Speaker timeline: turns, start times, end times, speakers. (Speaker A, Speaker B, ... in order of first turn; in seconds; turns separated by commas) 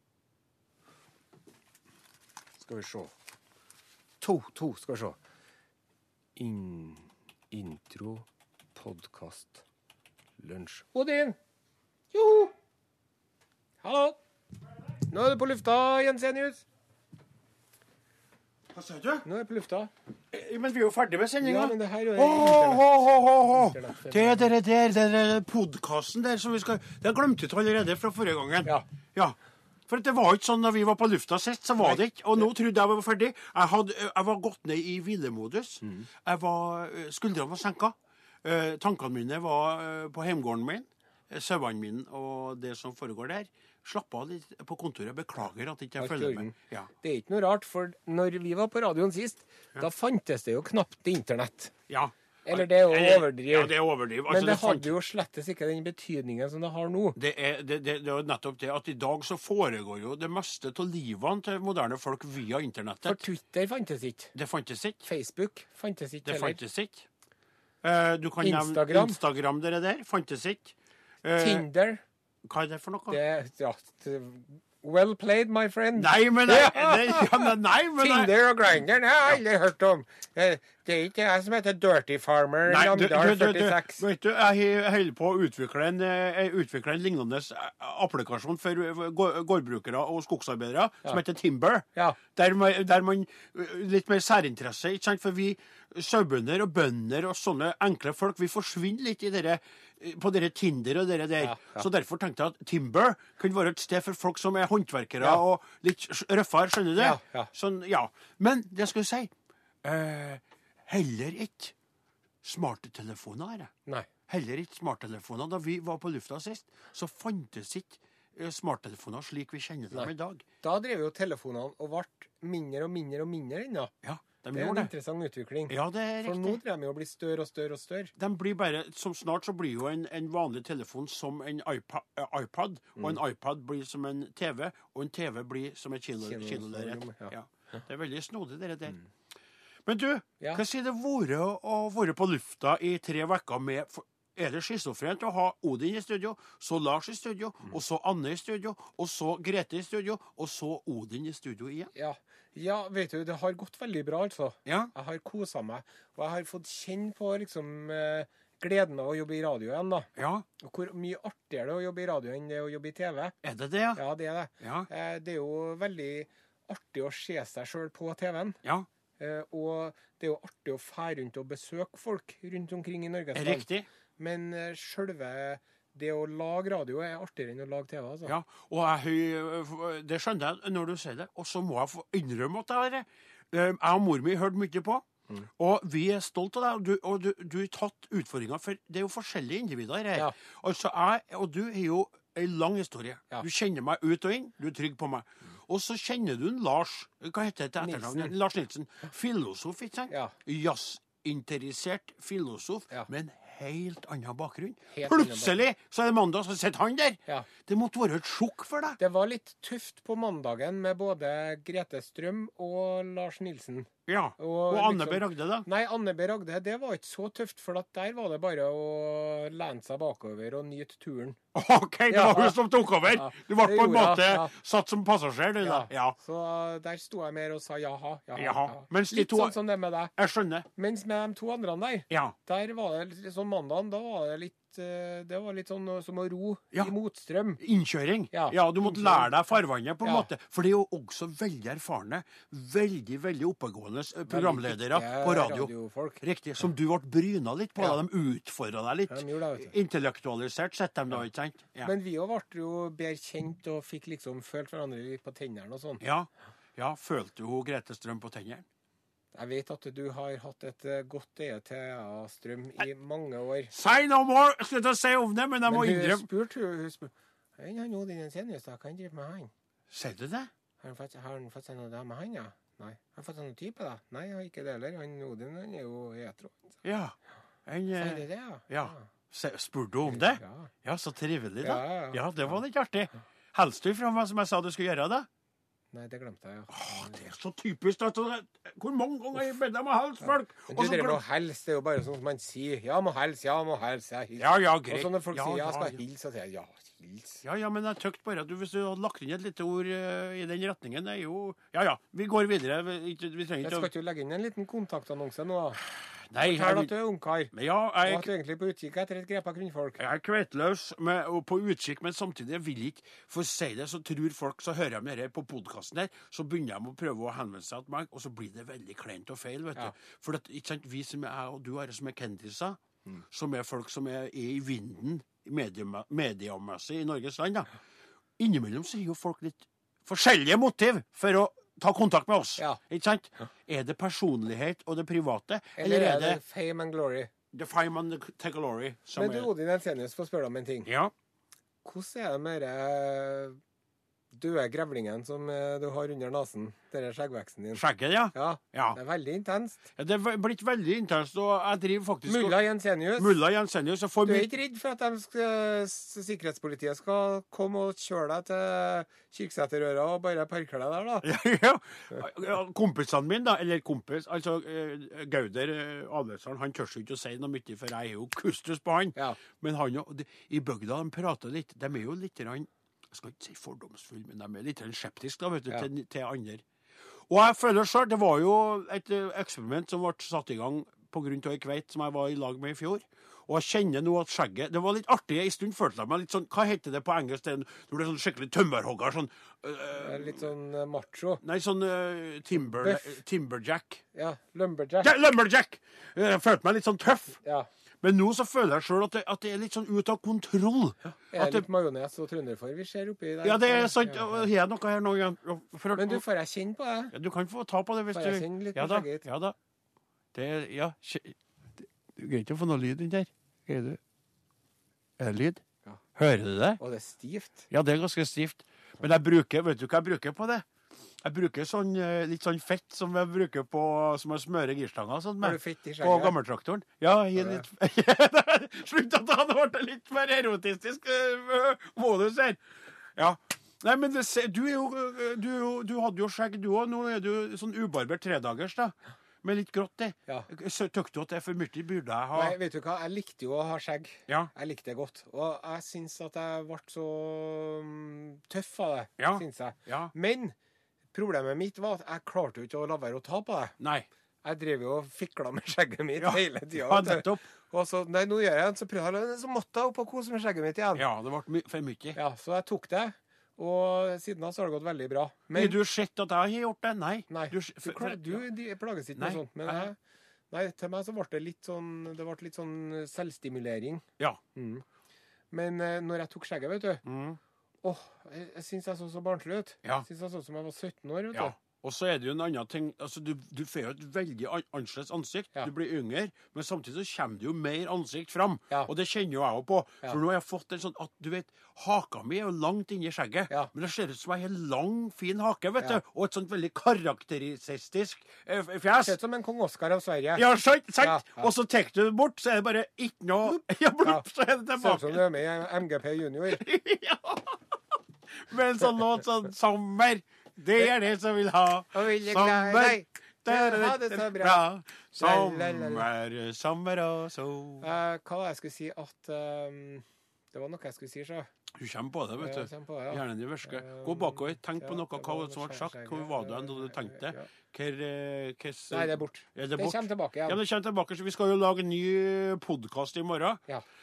Speaker A: 2.6-3.1, Speaker A: 4.2-5.2, Speaker A: 6.4-9.6, Speaker A: 10.4-11.4, Speaker A: 12.1-12.5, Speaker A: 13.8-14.2, Speaker A: 15.1-16.6, Speaker B: 18.7-19.2, Speaker A: 19.2-19.9, Speaker B: 20.3-29.4, Speaker A: 21.4-22.8, Speaker A: 23.5-24.5, Speaker B: 29.9-46.9, Speaker A: 35.8-36.1, Speaker A: 46.0-51.7, Speaker B: 51.9-55.0, Speaker A: 52.5-53.7, Speaker A: 54.2-57.2, Speaker B: 57.1-63.2, Speaker A: 63.0-64.3, Speaker B: 64.3-65.1, Speaker A: 65.0-66.6, Speaker B: 66.2-67.1, Speaker B: 67.8-71.7, Speaker A: 68.4-69.2, Speaker A: 71.4-72.0, Speaker B: 72.4-73.2, Speaker A: 73.1-84.0, Speaker B: 76.0-78.3, Speaker B: 82.7-109.3, Speaker A: 101.4-101.8, Speaker A: 107.0-107.5, Speaker B: 109.8-111.7, Speaker B: 112.4-113.7, Speaker B: 114.3-120.4, Speaker A: 119.9-123.9, Speaker B: 124.0-124.9, Speaker A: 124.5-128.1, Speaker B: 125.7-126.6, Speaker B: 128.2-139.0, Speaker A: 136.2-137.3, Speaker B: 139.8-151.9, Speaker A: 151.9-160.1, Speaker B: 154.6-154.9, Speaker B: 160.2-160.4, Speaker A: 160.6-163.3, Speaker B: 163.4-164.0, Speaker A: 163.9-168.6, Speaker B: 164.6-164.9, Speaker A: 169.2-173.7, Speaker B: 173.3-173.9, Speaker A: 174.2-178.3, Speaker B: 178.2-185.0, Speaker B: 185.6-209.0, Speaker A: 197.8-198.3, Speaker A: 204.9-205.6, Speaker A: 209.0-221.4, Speaker B: 214.1-215.7, Speaker B: 221.5-226.2, Speaker A: 222.1-224.5, Speaker A: 225.6-230.1, Speaker B: 228.3-229.5, Speaker B: 230.2-230.7, Speaker A: 230.8-237.6, Speaker B: 232.1-232.3, Speaker B: 237.6-251.9, Speaker A: 238.3-239.3, Speaker A: 240.0-240.3, Speaker A: 244.3-246.2, Speaker A: 249.1-249.7, Speaker A: 251.8-256.0, Speaker B: 256.0-258.6, Speaker A: 259.3-263.7, Speaker B: 263.7-266.3, Speaker A: 265.7-269.5, Speaker B: 269.9-270.5, Speaker A: 270.8-276.8, Speaker B: 276.8-277.1, Speaker B: 277.6-285.3, Speaker A: 278.0-279.1, Speaker A: 280.1-280.7, Speaker A: 281.6-282.6, Speaker A: 285.9-287.2, Speaker B: 286.7-291.2, Speaker A: 290.2-297.4, Speaker B: 294.4-296.0, Speaker B: 297.4-303.9, Speaker A: 303.6-305.8, Speaker B: 306.3-306.9, Speaker A: 306.4-307.5, Speaker B: 307.5-308.3, Speaker A: 308.0-310.0, Speaker B: 310.0-322.8, Speaker B: 323.3-327.7, Speaker B: 328.4-336.4, Speaker A: 335.8-337.3, Speaker B: 337.5-339.5, Speaker A: 339.1-340.9, Speaker B: 340.9-341.1, Speaker A: 341.8-343.6, Speaker A: 344.3-347.8, Speaker B: 347.7-349.0, Speaker A: 348.3-349.8, Speaker B: 349.9-352.6, Speaker A: 352.3-353.4, Speaker B: 353.2-354.5, Speaker A: 354.2-361.3, Speaker B: 361.2-376.6, Speaker B: 377.3-390.4, Speaker A: 390.0-391.4, Speaker B: 391.4-394.0, Speaker A: 392.6-393.1, Speaker A: 394.1-395.1, Speaker B: 395.0-397.4, Speaker A: 397.4-397.7, Speaker B: 398.0-401.6, Speaker A: 401.0-404.4, Speaker B: 403.4-406.2, Speaker A: 405.9-407.1, Speaker B: 407.1-409.6, Speaker A: 408.1-409.2, Speaker B: 410.3-414.0, Speaker B: 415.2-415.6, Speaker B: 416.1-416.8, Speaker A: 416.8-417.7, Speaker B: 417.7-420.6, Speaker B: 421.2-432.6, Speaker A: 425.4-426.4, Speaker A: 427.4-427.6, Speaker B: 433.1-442.6, Speaker A: 442.3-450.5, Speaker B: 449.2-450.1, Speaker A: 451.1-453.8, Speaker B: 453.8-454.1, Speaker A: 454.4-461.0, Speaker B: 456.2-457.4, Speaker B: 460.9-462.2, Speaker A: 462.1-465.8, Speaker B: 465.5-468.4, Speaker A: 467.3-469.9, Speaker B: 469.1-469.9, Speaker A: 470.5-474.8, Speaker A: 475.5-477.0, Speaker B: 477.0-477.4, Speaker A: 477.8-481.5, Speaker B: 481.3-499.2, Speaker A: 498.9-500.4, Speaker B: 500.3-505.2, Speaker A: 501.0-501.5, Speaker A: 503.5-504.2, Speaker A: 504.8-506.6, Speaker B: 506.5-507.6, Speaker B: 508.3-517.9, Speaker A: 511.9-514.6, Speaker A: 515.1-516.1, Speaker A: 517.8-521.5, Speaker B: 521.8-533.6, Speaker A: 522.4-527.5, Speaker A: 528.9-530.6